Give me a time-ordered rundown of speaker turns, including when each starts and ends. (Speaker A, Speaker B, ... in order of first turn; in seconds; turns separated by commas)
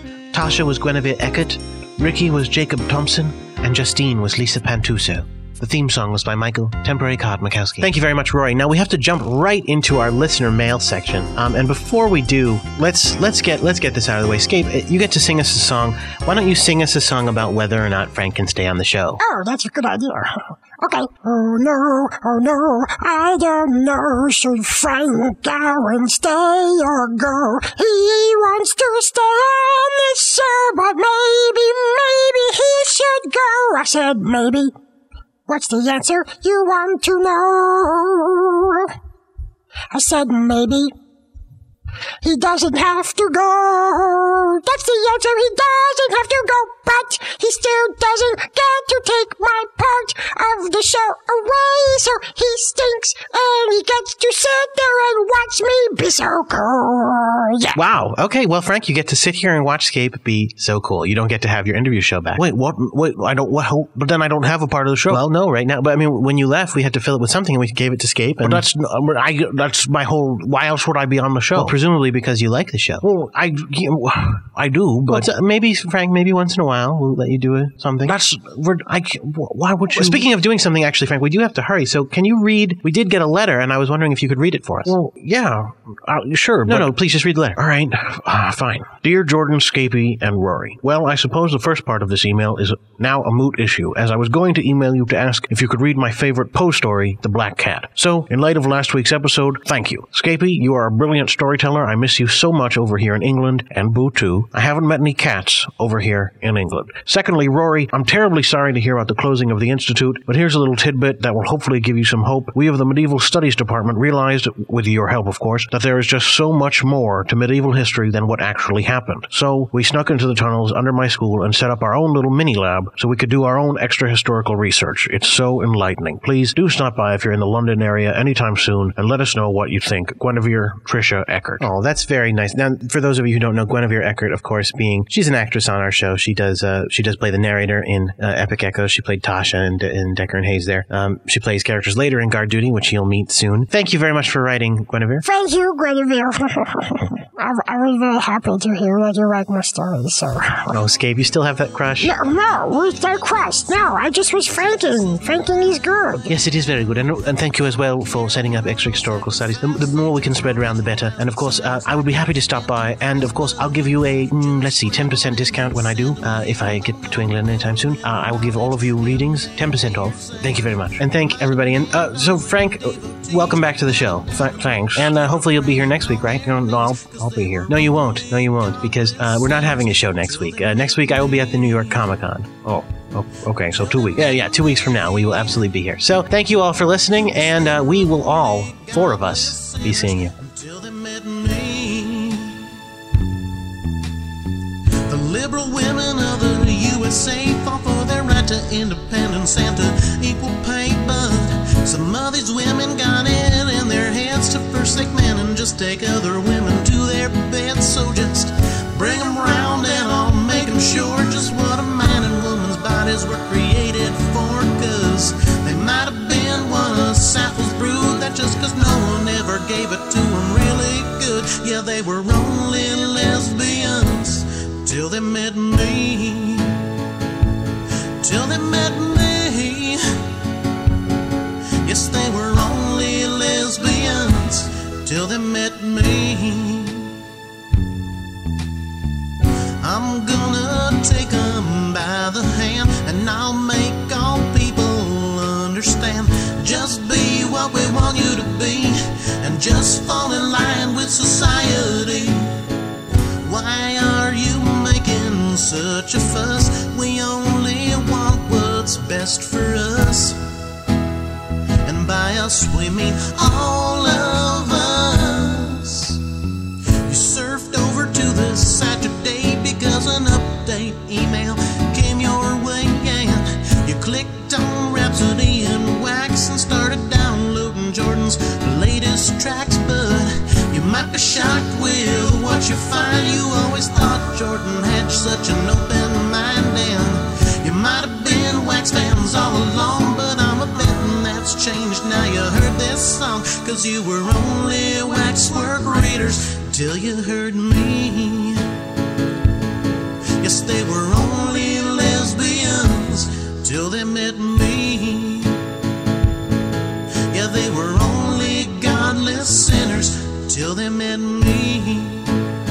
Speaker A: 0.3-8.0, Speaker B: 7.8-9.1, Speaker A: 9.2-19.1, Speaker C: 19.2-34.7, Speaker C: 35.5-38.9, Speaker C: 39.9-40.9, Speaker C: 42.2-57.8, Speaker A: 57.7-68.7, Speaker B: 65.0-65.3, Speaker B: 68.4-71.8, Speaker A: 71.5-73.0, Speaker B: 73.0-75.3, Speaker A: 75.0-78.2, Speaker B: 78.0-78.8, Speaker A: 79.0-85.0, Speaker B: 79.9-80.3, Speaker B: 84.8-85.6, Speaker B: 86.2-131.6, Speaker A: 86.7-87.2, Speaker A: 131.6-145.2, Speaker C: 145.2-150.8, Speaker A: 150.7-152.1, Speaker C: 152.0-156.3, Speaker A: 156.3-159.8, Speaker B: 159.1-161.3, Speaker A: 160.4-190.3, Speaker B: 161.9-162.4, Speaker B: 163.3-163.7, Speaker D: 170.1-170.5, Speaker B: 174.9-175.3, Speaker D: 175.3-178.0, Speaker D: 179.1-180.8, Speaker B: 183.6-184.3, Speaker D: 188.6-192.6, Speaker D: 195.1-226.8, Speaker D: 228.2-230.0, Speaker D: 231.8-237.1, Speaker D: 239.8-252.5, Speaker D: 253.4-260.4, Speaker D: 261.8-266.2, Speaker D: 267.1-298.6, Speaker D: 300.4-305.6, Speaker D: 307.3-312.3